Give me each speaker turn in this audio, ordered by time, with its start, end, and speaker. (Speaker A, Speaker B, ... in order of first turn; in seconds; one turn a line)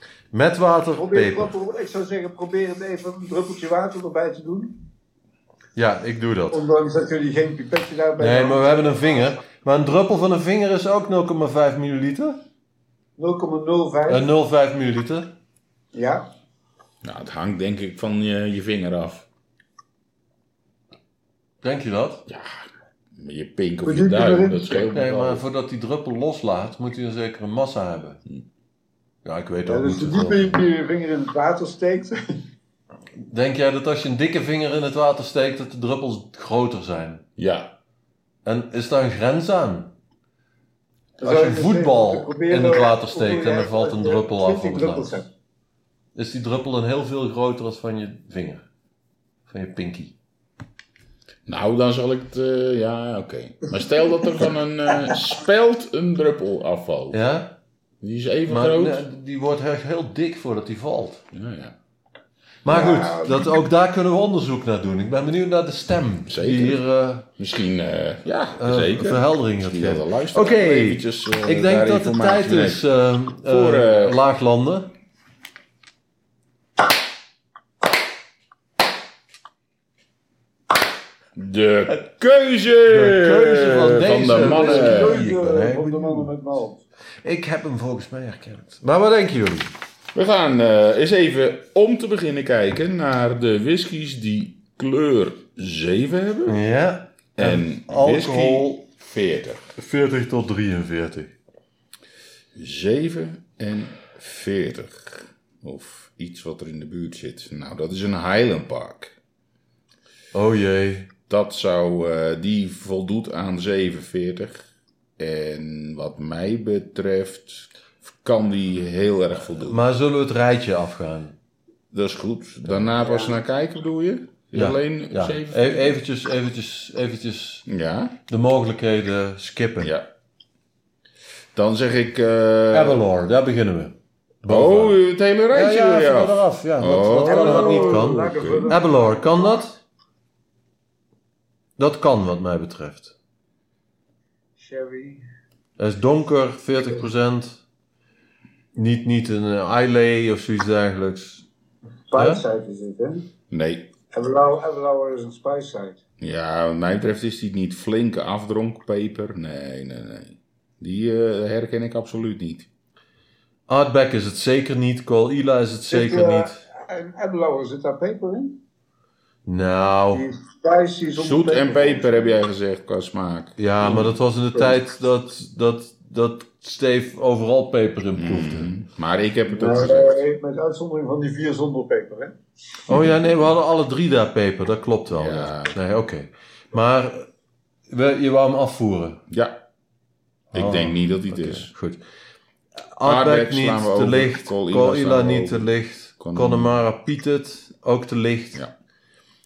Speaker A: 0.3-1.5
Speaker B: 1.0-4.7
Speaker A: 5.7-6.6
Speaker B: 6.5-9.2
Speaker A: 8.2-12.4
Speaker B: 13.2-14.3
Speaker A: 14.1-15.3
Speaker B: 15.9-16.3
Speaker C: 17.0-19.3
Speaker A: 21.6-22.2
Speaker C: 22.3-22.6
Speaker C: 23.1-25.4
Speaker B: 23.8-24.9
Speaker A: 24.9-28.2
Speaker A: 29.2-30.6
Speaker B: 29.7-32.2
Speaker A: 33.2-37.2
Speaker C: 37.4-37.7
Speaker A: 38.4-39.9
Speaker A: 41.2-45.1
Speaker B: 41.2-45.3
Speaker A: 46.1-48.6
Speaker A: 49.5-50.1
Speaker C: 51.5-57.2
Speaker A: 57.1-57.5
Speaker C: 58.0-59.0
Speaker A: 58.5-61.2
Speaker C: 61.3-61.7
Speaker A: 62.6-67.3
Speaker B: 62.7-63.6
Speaker C: 66.3-66.8
Speaker C: 67.4-72.8
Speaker A: 68.6-74.9
Speaker C: 73.4-74.2
Speaker C: 81.3-85.2
Speaker A: 82.9-86.3
Speaker B: 84.3-86.8
Speaker A: 87.2-89.7
Speaker C: 90.1-96.6
Speaker A: 96.5-98.8
Speaker C: 97.3-99.6
Speaker A: 99.8-101.3
Speaker C: 102.5-109.1
Speaker A: 110.3-111.1
Speaker C: 111.3-114.6
Speaker C: 115.2-119.8
Speaker A: 119.6-121.3
Speaker C: 121.9-125.9
Speaker B: 123.0-123.4
Speaker A: 124.5-127.7
Speaker C: 127.7-128.1
Speaker A: 128.3-129.9
Speaker C: 129.8-130.1
Speaker C: 131.5-133.0
Speaker A: 132.7-135.0
Speaker C: 134.5-138.7
Speaker A: 135.5-139.8
Speaker B: 137.2-139.7
Speaker A: 141.8-143.1
Speaker B: 144.6-145.2
Speaker A: 145.8-147.6
Speaker A: 148.7-151.4
Speaker B: 152.1-153.3
Speaker A: 152.2-152.4
Speaker C: 153.5-153.9
Speaker B: 154.1-156.0
Speaker C: 156.2-162.7
Speaker A: 163.7-166.6
Speaker B: 165.9-168.6
Speaker A: 169.4-170.2
Speaker B: 170.1-172.4
Speaker C: 171.2-174.1
Speaker A: 173.6-178.7
Speaker B: 174.5-174.8
Speaker C: 178.2-180.2
Speaker B: 179.5-182.3
Speaker A: 182.9-187.3
Speaker C: 185.1-185.8
Speaker A: 187.9-189.2
Speaker C: 189.3-189.6
Speaker A: 190.5-192.0
Speaker C: 190.5-191.7
Speaker A: 192.9-198.6
Speaker C: 193.0-196.7